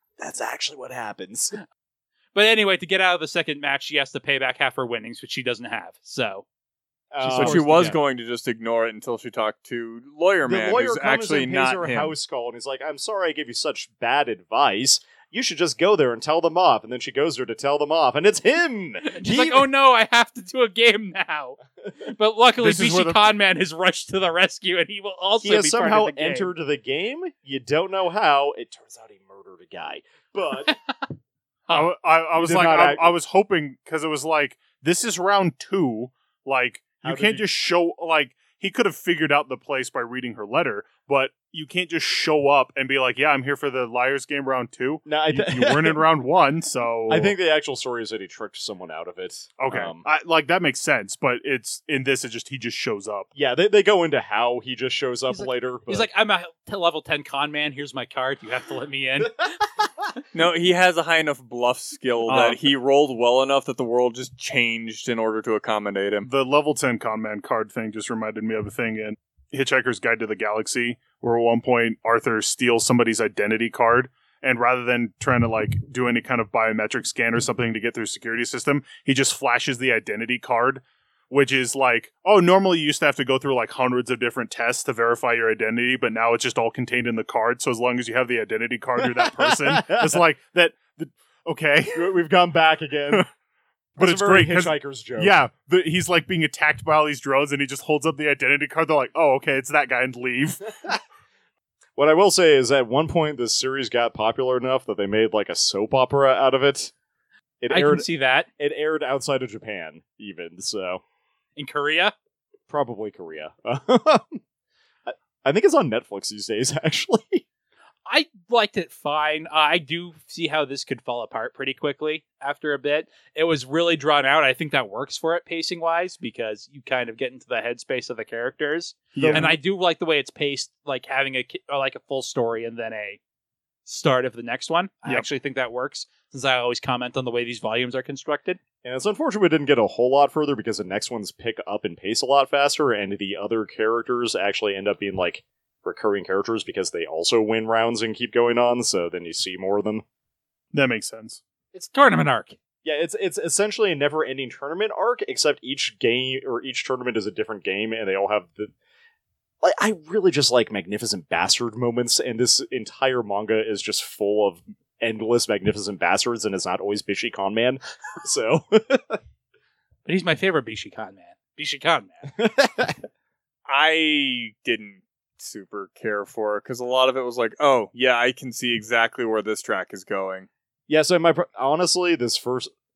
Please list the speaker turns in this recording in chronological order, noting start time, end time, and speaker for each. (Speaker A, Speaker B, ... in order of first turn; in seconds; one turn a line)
Speaker A: 0.2-1.6
Speaker B: 2.4-6.5
Speaker A: 7.1-8.0
Speaker C: 7.2-12.2
Speaker B: 7.3-7.6
Speaker A: 10.5-19.7
Speaker B: 19.0-26.5
Speaker D: 22.6-23.2
Speaker A: 25.4-30.8
Speaker B: 30.7-31.1
Speaker D: 31.7-47.3
Speaker A: 32.4-33.2
Speaker A: 37.0-37.5
Speaker A: 45.1-46.0
Speaker A: 47.1-50.0
Speaker D: 49.6-53.3
Speaker A: 53.4-56.1
Speaker B: 55.3-59.6
Speaker C: 60.3-66.3
Speaker D: 62.3-62.6
Speaker D: 66.3-92.2
Speaker A: 89.0-90.2
Speaker A: 91.9-93.3
Speaker A: 94.0-95.4
Speaker D: 94.0-101.0
Speaker A: 102.0-106.9
Speaker A: 107.6-111.0
Speaker B: 107.7-108.5
Speaker B: 111.6-112.1
Speaker A: 112.7-114.4
Speaker A: 115.1-117.4
Speaker B: 118.1-133.2
Speaker D: 129.2-129.6
Speaker A: 129.2-129.5
Speaker B: 133.9-138.6
Speaker A: 138.8-150.0
Speaker D: 150.7-151.4
Speaker B: 151.7-152.6
Speaker A: 152.8-158.7
Speaker A: 159.6-169.2
Speaker B: 170.1-172.3
Speaker A: 172.3-173.0
Speaker C: 173.7-180.5
Speaker A: 180.9-182.7